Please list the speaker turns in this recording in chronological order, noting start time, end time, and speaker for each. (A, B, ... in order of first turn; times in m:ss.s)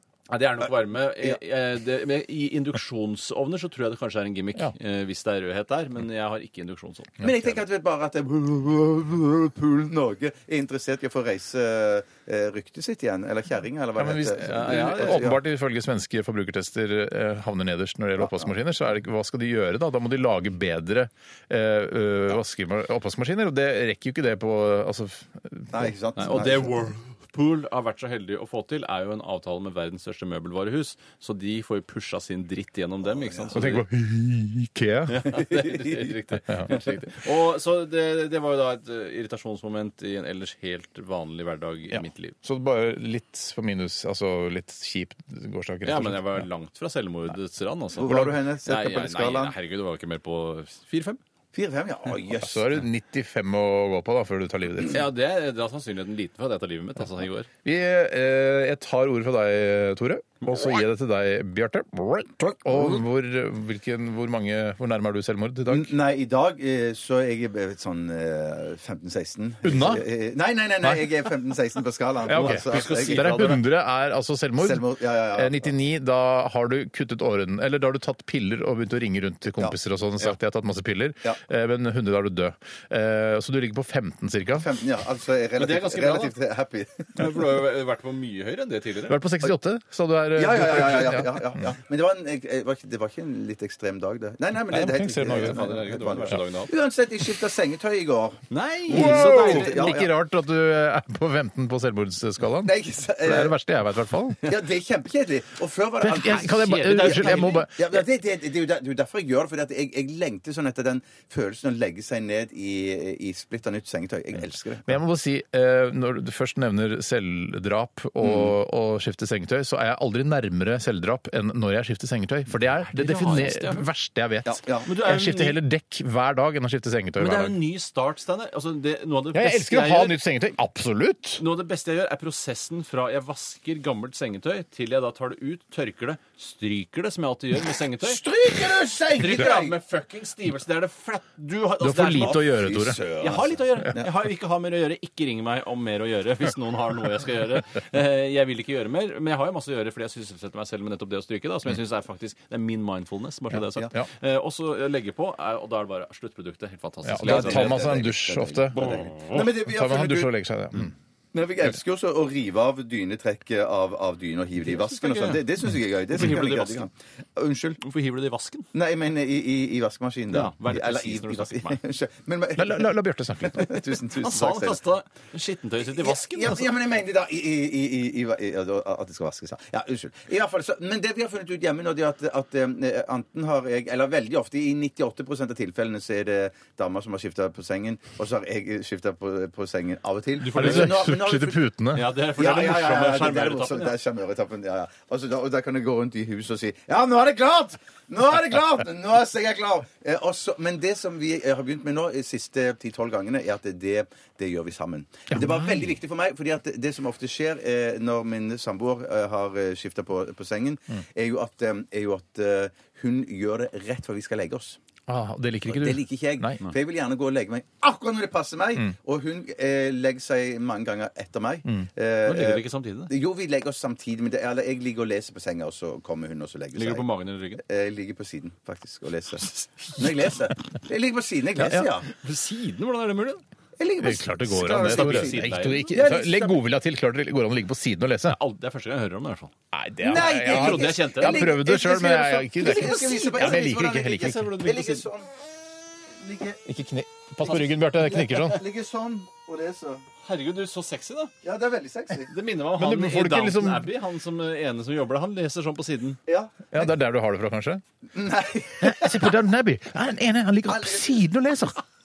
0:00.3-0:07.6 A
0:07.2-0:15.4 B
0:14.0-0:25.9 C
0:14.4-0:15.3 A
0:18.2-0:18.5 B
0:25.7-0:26.8 B
0:26.2-0:33.8 A
0:33.1-0:33.6 B
0:33.6-0:35.4 C
0:35.1-0:42.4 A
0:36.5-0:37.0 C
0:41.9-0:46.5 C
0:45.8-0:51.2 A
0:48.0-0:49.6 B
0:48.0-0:48.4 C
0:51.5-0:52.7 B
0:52.3-0:55.0 C
0:54.8-0:57.5 A
0:57.6-1:06.0 C
1:02.5-1:03.0 B
1:05.7-1:13.6 B
1:09.6-1:10.1 C
1:12.3-1:24.7 C
1:12.3-1:13.6 A
1:14.6-1:15.7 B
1:24.6-1:27.3 B
1:25.6-1:26.3 A
1:27.2-1:29.2 A
1:29.1-1:31.4 C
1:30.4-1:40.1 B
1:34.7-1:36.4 C
1:35.3-1:36.7 A
1:38.5-1:39.9 A
1:38.9-1:44.5 C
1:42.6-1:43.6 B
1:44.4-1:55.0 B
1:46.0-1:48.0 C
1:46.5-1:47.7 A
1:54.9-2:07.6 C
1:58.2-1:58.6 B
2:02.8-2:03.9 A
2:04.4-2:04.9 B
2:04.8-2:05.6 A
2:07.2-2:10.2 A
2:09.3-2:11.4 C
2:11.4-2:18.2 A
2:18.0-2:19.8 B
2:19.2-2:38.0 A
2:21.8-2:23.0 C
2:22.1-2:24.1 B
2:37.0-2:40.9 C
2:37.2-2:40.4 B
2:38.8-2:39.4 A
2:41.3-2:47.8 B
2:44.6-2:45.5 A
2:46.2-2:46.9 A
2:47.8-2:48.7 A
2:48.7-2:54.8 B
2:50.3-2:51.8 A
2:52.6-2:53.8 C
2:54.2-2:56.7 A
2:55.8-3:11.6 B
3:10.4-3:10.9 A
3:10.5-3:12.0 C
3:11.9-3:14.0 A
3:12.4-3:34.8 B
3:25.3-3:25.9 C
3:35.1-3:36.6 C
3:35.7-3:47.1 B
3:42.2-3:43.1 A
3:46.8-3:47.6 A
3:47.6-3:52.1 B
3:51.6-3:51.9 C
3:52.1-3:53.4 A
3:53.8-3:56.6 B
3:54.0-3:58.4 C
3:54.7-3:55.9 A
3:58.3-3:59.5 A
3:59.7-4:04.5 C
4:00.0-4:05.3 B
4:00.1-4:01.6 A
4:02.6-4:05.1 A
4:06.2-4:06.6 B
4:06.7-4:08.6 C
4:07.5-4:10.0 B
4:10.2-4:11.3 A
4:11.4-4:12.3 B
4:12.3-4:16.2 A
4:12.8-4:13.9 C
4:16.3-4:16.9 B
4:16.7-4:17.8 C
4:18.1-4:19.3 B
4:18.8-4:21.8 C
4:20.6-4:21.2 B